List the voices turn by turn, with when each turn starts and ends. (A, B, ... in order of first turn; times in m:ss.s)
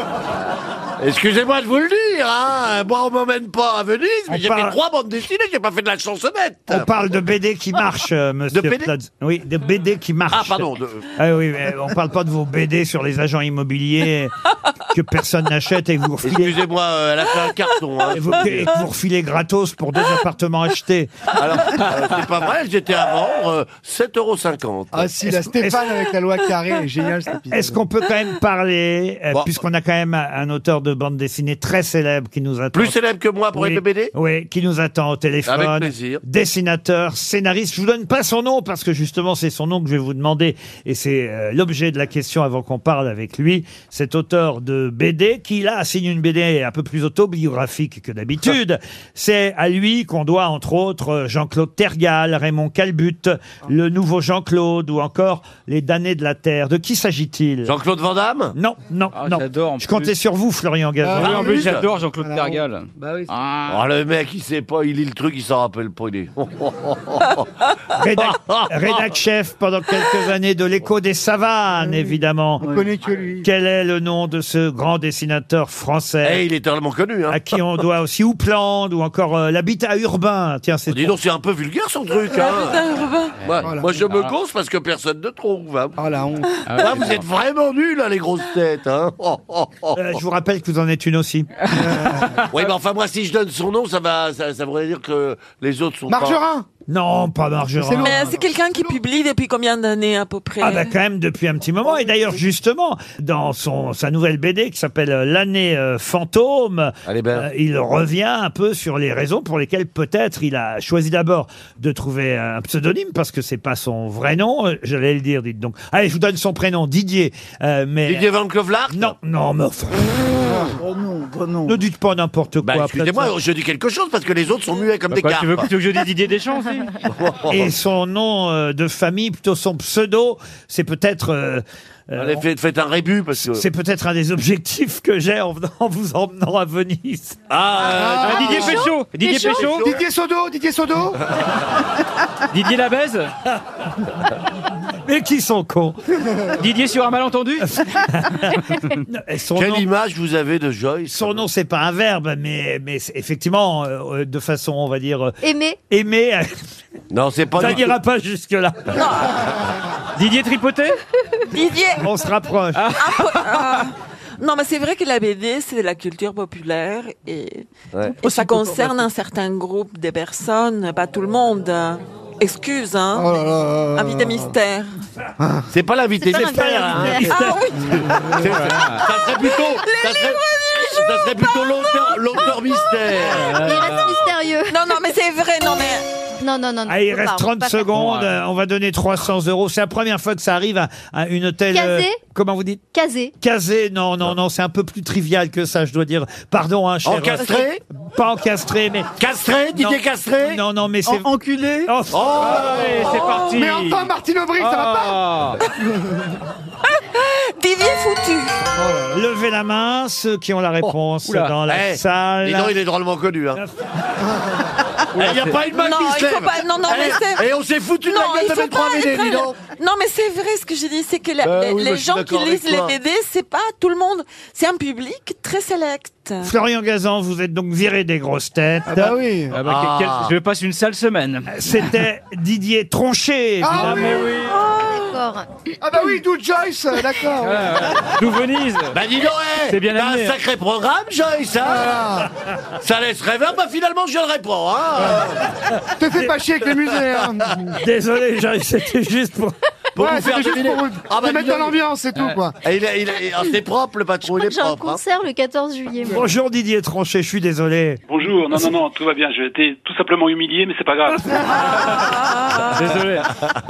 0:01.0-0:06.9 A
0:04.3-0:04.8 B
0:06.7-0:16.6 B
0:08.5-0:08.9 A
0:10.3-0:11.1 A
0:16.2-0:18.8 A
0:18.1-0:21.1 B
0:21.4-0:25.1 A
0:24.9-0:27.8 C
0:25.2-0:25.9 B
0:27.5-0:33.0 B
0:32.7-0:34.1 A
0:33.5-0:57.7 B
0:35.5-0:36.2 A
0:57.6-0:58.6 A
0:58.5-1:01.5 B
0:59.1-1:00.1 D
1:01.0-1:01.6 C
1:01.2-1:03.8 D
1:01.2-1:01.9 A
1:02.2-1:03.3 C
1:03.7-1:07.5 A
1:08.0-1:12.7 B
1:08.2-1:09.0 A
1:12.6-1:13.4 C
1:13.4-1:16.4 B
1:16.2-1:17.4 A
1:17.3-1:21.1 B
1:20.9-1:22.8 A
1:22.3-1:23.4 E
1:23.4-1:26.0 A
1:23.6-1:24.3 D
1:23.6-1:24.0 C
1:26.0-1:26.6 C
1:26.6-1:27.2 D
1:26.8-1:30.0 A
1:29.9-1:31.5 B
1:31.8-1:32.4 C
1:32.5-1:36.4 A
1:36.1-1:36.6 C
1:36.9-1:38.3 B
1:37.8-1:38.9 C
1:38.0-1:40.9 E
1:40.6-1:58.3 B
1:47.1-1:47.4 A
1:58.1-1:59.2 A
1:58.9-2:00.2 B
2:00.8-2:01.8 D
2:01.7-2:03.4 B
2:02.6-2:05.8 A
2:05.1-2:07.0 D
2:07.1-2:07.7 A
2:07.5-2:12.4 B
2:12.2-2:13.6 A
2:13.4-2:17.4 B
2:17.5-2:20.0 A
2:17.8-2:19.0 C
2:18.2-2:19.8 D
2:18.8-2:19.7 F
2:19.8-2:21.2 C
2:22.5-2:23.3 D
2:25.0-2:26.3 B
2:26.6-2:27.8 D
2:27.6-2:29.9 B
2:29.6-2:31.4 A
2:31.1-2:36.6 B
2:35.4-2:35.8 F
2:37.1-2:37.9 A
2:37.6-2:39.1 B
2:38.9-2:39.5 E
2:40.2-2:41.0 D
2:41.5-2:42.1 E
2:42.0-2:42.9 B
2:42.8-2:43.8 D
2:43.0-2:55.0 E
2:48.2-2:49.0 D
2:53.2-2:54.4 C
2:55.4-2:55.7 C
2:55.7-3:03.5 A
2:56.2-2:57.4 F
2:56.3-2:57.6 B
2:57.2-2:58.4 E
2:58.0-2:58.5 C
2:58.4-2:59.1 D
2:59.0-3:03.0 E
3:03.2-3:04.3 D
3:03.5-3:03.8 E
3:03.5-3:04.8 F
3:04.7-3:06.1 E
3:06.4-3:07.9 F
3:06.9-3:19.1 B
3:07.9-3:08.3 D
3:11.7-3:12.2 F
3:12.9-3:13.3 F
3:17.0-3:17.8 A
3:19.2-3:20.6 A
3:19.7-3:22.4 B
3:21.1-3:25.6 D
3:22.1-3:23.4 A
3:23.4-3:26.4 C
3:26.8-3:28.6 E
3:28.7-3:29.2 C
3:29.1-3:32.8 B
3:31.2-3:31.6 D
3:31.7-3:33.6 A
3:33.6-3:34.4 B
3:35.1-3:35.6 D
3:35.1-3:39.6 A
3:35.7-3:37.4 E
3:38.0-3:46.5 E
3:41.4-3:43.0 A
3:46.4-3:49.2 B
3:48.9-3:49.6 C
3:49.5-3:51.7 D
3:49.6-3:50.4 A
3:51.5-3:54.3 B
3:53.6-3:54.4 C
3:53.8-3:54.6 D
3:54.4-3:55.2 E
3:55.0-3:55.5 F
3:55.8-3:57.9 C
3:57.4-3:59.0 D
3:58.9-4:02.0 A
3:59.6-4:00.4 D
4:01.6-4:02.3 C
4:02.8-4:05.5 A
4:05.0-4:05.2 C
4:06.0-4:07.8 C
4:06.9-4:07.2 A
4:07.8-4:09.6 B
4:10.0-4:11.8 A
4:10.0-4:12.6 C
4:12.6-4:15.0 A
4:14.3-4:16.3 F
4:16.0-4:18.0 B
4:18.1-4:21.5 G
4:21.8-4:22.7 E
4:22.0-4:23.3 D